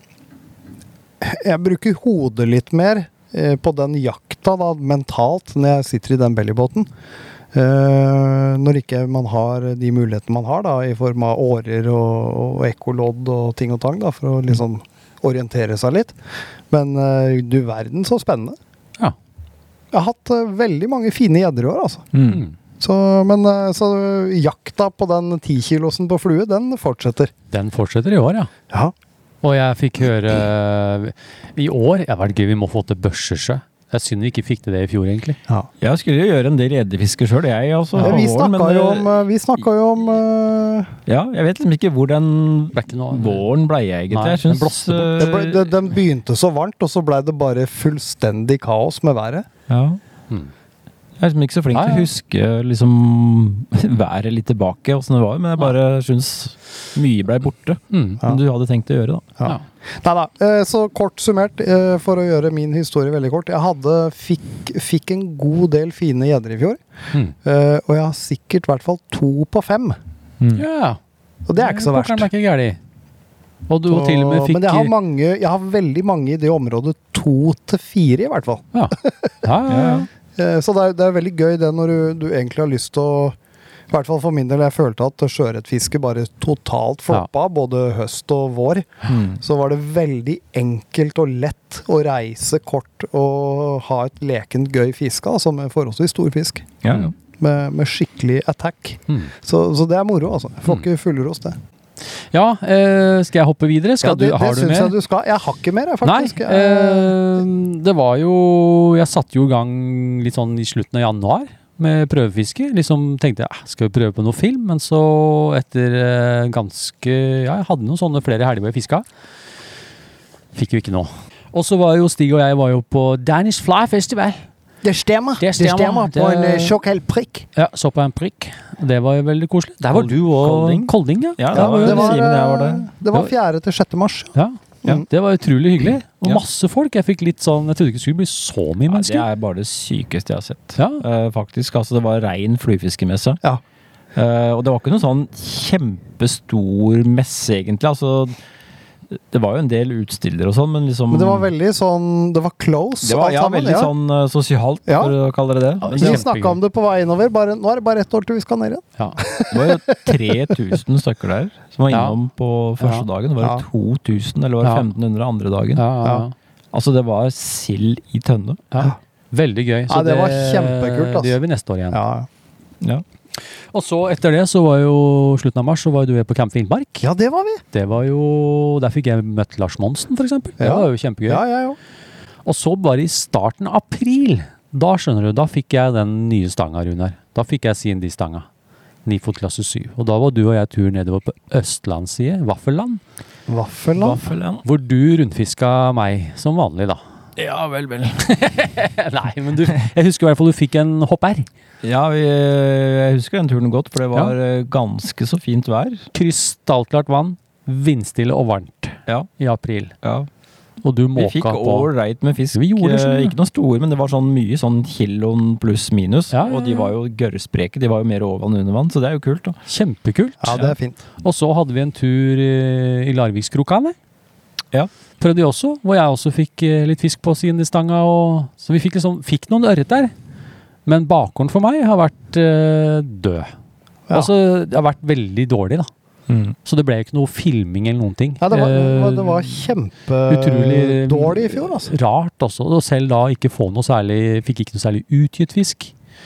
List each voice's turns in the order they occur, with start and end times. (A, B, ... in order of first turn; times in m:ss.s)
0:01.2-0:06.9 A
0:07.5-0:16.2 A
0:16.7-0:18.6 A
0:19.9-0:22.1 A
0:22.1-0:22.4 B
0:22.3-0:22.6 C
0:22.8-0:27.3 A
0:27.5-0:28.5 C
0:29.4-0:35.4 C
0:35.8-0:39.1 B
0:38.0-0:41.0 A
0:41.1-0:45.7 B
0:42.7-0:43.5 C
0:44.1-0:45.3 C
0:45.2-0:49.5 A
0:49.7-0:50.0 B
0:51.2-0:59.3 B
0:51.7-0:52.1 C
0:57.9-0:58.2 C
0:59.4-1:06.8 A
1:07.4-1:10.0 A
1:10.5-1:11.0 C
1:11.5-1:12.3 A
1:11.6-1:12.8 C
1:13.7-1:14.9 C
1:13.9-1:19.4 A
1:18.7-1:20.1 C
1:19.7-1:20.1 B
1:20.4-1:23.4 A
1:23.9-1:36.7 A
1:29.1-1:29.4 B
1:36.8-1:37.1 B
1:37.4-1:41.6 A
1:42.3-1:44.9 C
1:44.0-1:47.2 A
1:46.0-1:59.1 C
2:00.5-2:04.4 C
2:04.8-2:07.5 A
2:05.4-2:06.8 C
2:07.6-2:12.2 C
2:09.9-2:12.9 B
2:11.5-2:14.3 A
2:14.4-2:19.2 C
2:18.9-2:23.4 B
2:20.8-2:21.0 C
2:24.2-2:28.4 B
2:29.1-2:31.5 B
2:31.1-2:33.9 A
2:33.0-2:36.3 B
2:34.9-2:35.2 A
2:35.8-2:36.6 C
2:35.9-2:40.4 A
2:39.5-2:45.8 B
2:41.9-2:42.2 C
2:42.8-2:43.0 C
2:45.8-2:46.3 C
2:46.7-2:48.6 B
2:48.7-2:52.0 C
2:49.9-2:51.4 A
2:51.9-2:52.3 A
2:53.4-2:57.0 C
2:57.0-2:57.6 A
2:57.7-3:01.4 C
3:00.6-3:01.8 A
3:02.4-3:08.5 C
3:09.0-3:13.0 C
3:13.5-3:14.2 A
3:14.0-3:14.6 B
3:14.6-3:17.0 C
3:17.4-3:18.2 B
3:18.2-3:21.5 C
3:21.8-3:26.0 B
3:26.1-3:30.0 C
3:30.0-3:30.3 B
3:30.8-3:31.9 C
3:31.2-3:39.6 B
3:32.5-3:33.4 C
3:36.3-3:36.9 C
3:39.7-3:40.7 C
3:40.4-3:41.0 A
3:41.2-3:44.0 C
3:45.2-3:50.1 C
3:50.9-3:53.5 C
3:54.1-3:55.9 C
3:56.3-3:56.6 B
3:56.6-3:59.7 C
3:58.4-4:01.9 A
4:00.3-4:05.9 C